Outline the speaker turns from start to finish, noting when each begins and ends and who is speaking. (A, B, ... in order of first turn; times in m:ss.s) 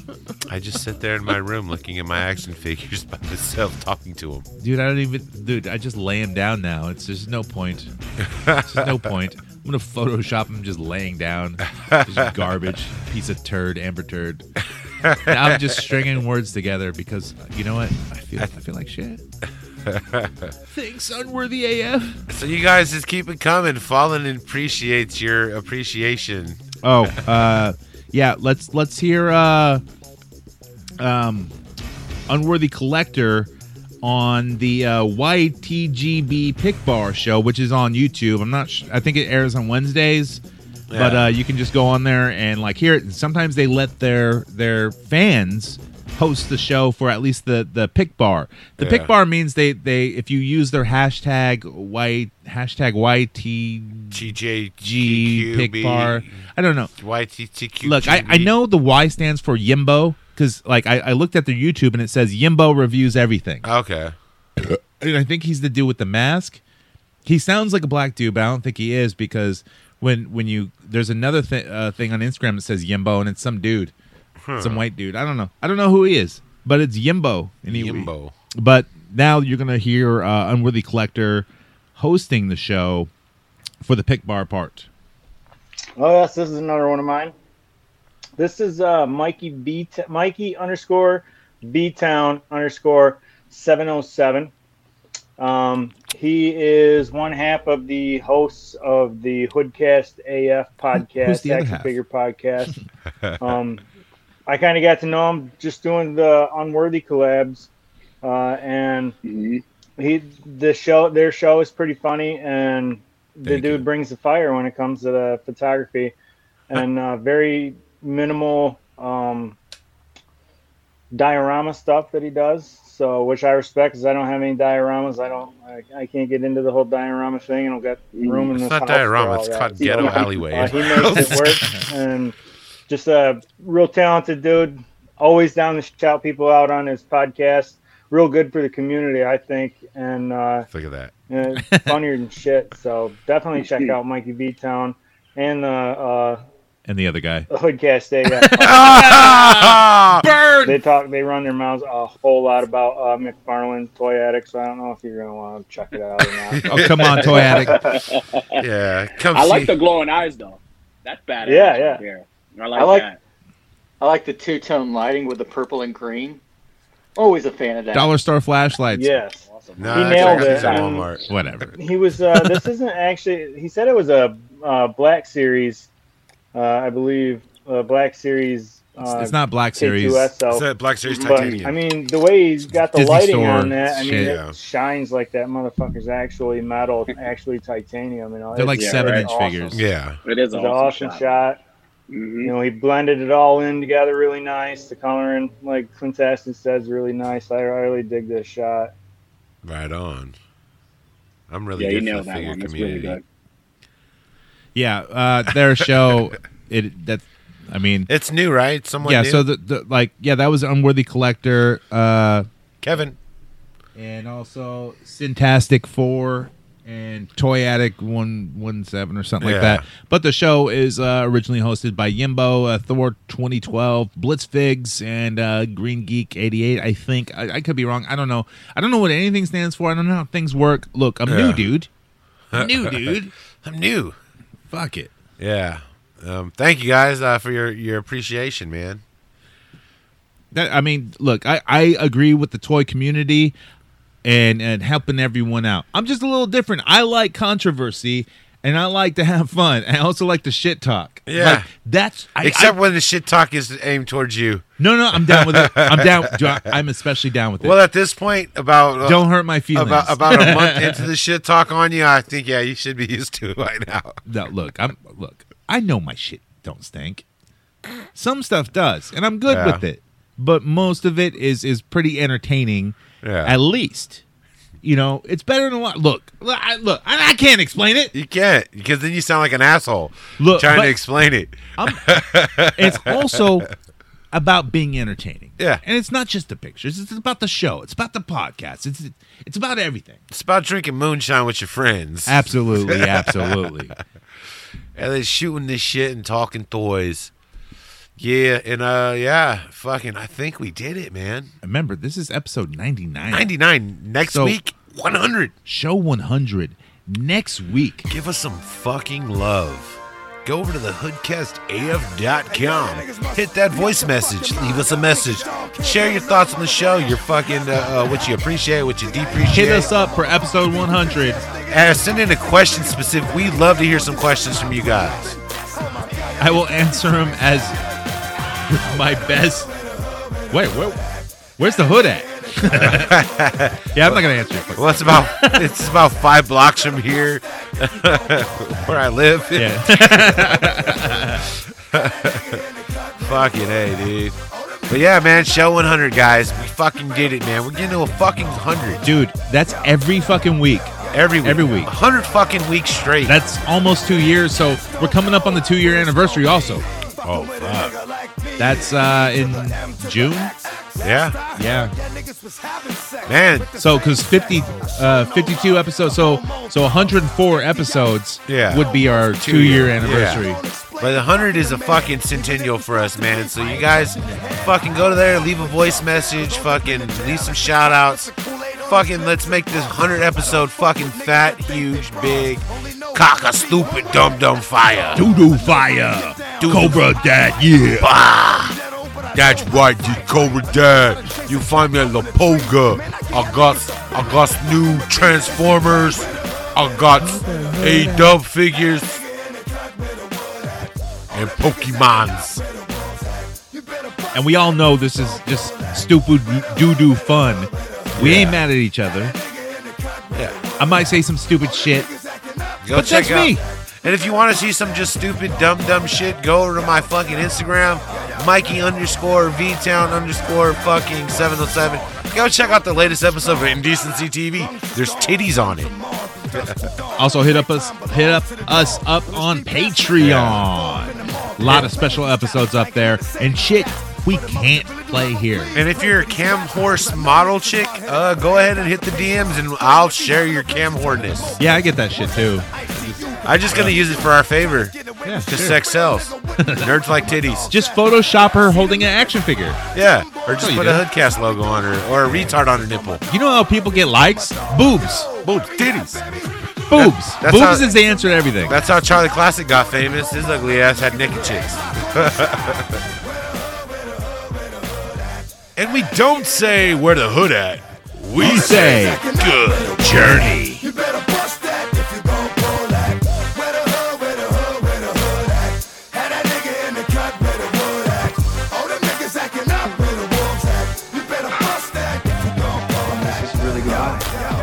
0:00.5-0:04.4 A
0:04.6-0:07.9 B
0:08.2-0:08.8 A
0:08.6-0:14.5 B
0:11.8-0:12.3 A
0:15.0-0:15.8 A
0:15.3-0:19.2 B
0:19.9-0:20.5 A
0:20.7-0:22.2 B
0:22.3-0:27.2 A
0:26.8-0:29.8 B
0:31.0-0:31.5 B
0:32.3-0:33.5 B
0:34.0-0:40.4 B
0:40.9-0:41.3 A
0:40.9-0:56.9 B
0:48.8-0:49.1 A
0:54.1-0:58.5 A
0:57.8-1:03.6 B
1:03.6-1:04.1 A
1:04.6-1:06.6 B
1:07.2-1:13.9 B
1:14.4-1:14.8 A
1:14.6-1:23.1 B
1:17.7-1:18.3 A
1:23.8-1:24.9 B
1:26.0-1:27.3 C
1:28.4-1:34.5 C
1:35.4-1:42.8 C
1:41.0-1:42.0 B
1:43.4-1:43.8 C
1:44.5-1:47.7 C
1:48.2-1:49.2 C
1:49.2-1:49.6 D
1:50.0-1:56.1 C
1:53.4-1:53.9 A
1:56.7-1:59.6 C
2:01.1-2:12.4 C
2:08.1-2:08.5 D
2:08.5-2:11.7 A
2:11.3-2:11.8 B
2:12.9-2:20.7 C
2:20.7-2:21.1 A
2:21.3-2:26.4 C
2:21.6-2:22.0 B
2:26.9-2:27.5 B
2:27.5-2:29.3 C
2:28.3-2:30.8 B
2:28.6-2:30.2 A
2:30.6-2:36.9 C
2:36.5-2:37.8 A
2:36.6-2:37.8 B
2:37.1-2:38.6 D
2:38.6-2:39.8 A
2:39.3-2:43.2 D
2:41.4-2:42.0 C
2:42.8-2:43.1 C
2:44.0-2:46.4 E
2:47.2-2:48.1 E
2:47.9-2:49.2 B
2:48.9-2:51.1 C
2:49.5-2:50.9 D
2:49.8-2:51.2 A
2:51.2-2:51.8 B
2:51.8-2:55.9 C
2:56.5-3:09.8 C
2:59.1-3:00.3 B
3:00.5-3:01.8 A
3:01.1-3:01.6 D
3:02.9-3:04.4 B
3:04.1-3:04.5 A
3:08.5-3:09.8 B
3:08.8-3:09.3 D
3:09.7-3:10.2 A
3:10.2-3:11.4 D
3:10.5-3:11.6 C
3:12.1-3:12.5 D
3:12.4-3:18.9 C
3:19.6-3:20.3 A
3:21.5-3:23.2 A
3:21.8-3:23.2 D
3:24.8-3:28.1 B
3:28.1-3:29.4 A
3:29.0-3:32.5 B
3:32.8-3:33.2 A
3:34.0-3:51.9 B
3:39.4-3:39.8 A
3:51.3-3:51.7 A
3:52.5-3:54.2 A
3:52.5-3:53.3 B
3:54.7-3:55.1 B
3:55.4-3:59.0 A
4:00.5-4:03.6 B
4:04.2-4:12.8 B
4:11.3-4:11.7 A
4:12.4-4:16.8 A
4:14.8-4:17.8 B
4:17.6-4:24.2 A
4:19.0-4:21.1 B
4:24.3-4:27.2 B
4:28.1-4:34.2 B
4:29.5-4:29.8 A
4:33.2-4:33.6 A
4:34.8-4:38.1 B
4:38.1-4:43.5 A
4:40.4-4:41.0 B
4:41.8-4:43.7 B
4:44.3-4:50.2 B
4:45.6-4:45.8 A
4:50.3-4:53.7 A
4:52.3-4:53.9 B
4:55.0-4:57.3 A
4:58.2-5:01.5 A
5:01.6-5:03.5 B
5:03.3-5:05.5 A
5:04.2-5:04.6 B
5:05.6-5:08.1 B
5:08.1-5:19.9 A
5:19.4-5:21.5 B
5:21.6-5:25.4 A
5:26.4-5:27.8 B
5:28.7-5:29.7 B
5:30.5-5:33.2 B
5:32.7-5:34.2 A
5:33.9-5:35.8 B
5:34.8-5:49.1 A
5:39.6-5:41.4 B
5:49.0-5:51.9 B
5:51.1-5:53.4 A
5:53.2-5:56.9 B
5:57.2-5:58.0 A
5:58.6-6:00.6 B
6:01.0-6:01.4 A
6:01.5-6:02.0 B
6:03.2-6:03.7 A
6:03.8-6:10.6 B
6:08.5-6:25.2 A
6:14.2-6:14.6 B
6:25.2-6:28.1 B
6:26.6-6:27.1 A
6:28.0-6:28.8 A
6:29.3-6:39.2 A
6:37.2-6:38.4 B
6:41.3-6:42.6 A
6:44.3-6:49.4 B
6:48.1-6:48.6 A
6:50.8-6:52.2 B
6:52.8-7:06.0 A
6:52.9-6:53.6 B
7:06.5-7:06.9 A
7:07.2-7:15.8 B
7:10.2-7:10.7 A
7:11.6-7:11.9 A
7:15.7-7:21.6 A
7:21.6-7:22.7 B
7:22.9-7:27.7 A
7:23.7-7:24.0 B
7:25.2-7:25.9 B
7:26.6-7:26.9 B
7:27.7-7:29.8 B
7:29.9-7:33.2 A
7:30.6-7:31.1 B
7:32.2-7:32.6 B
7:33.3-7:35.3 B
7:35.4-7:36.3 A
7:36.9-7:38.8 B
7:36.9-7:37.9 A
7:38.7-7:43.0 A
7:45.8-7:50.5 A
7:48.4-7:49.3 B
7:49.9-7:50.9 B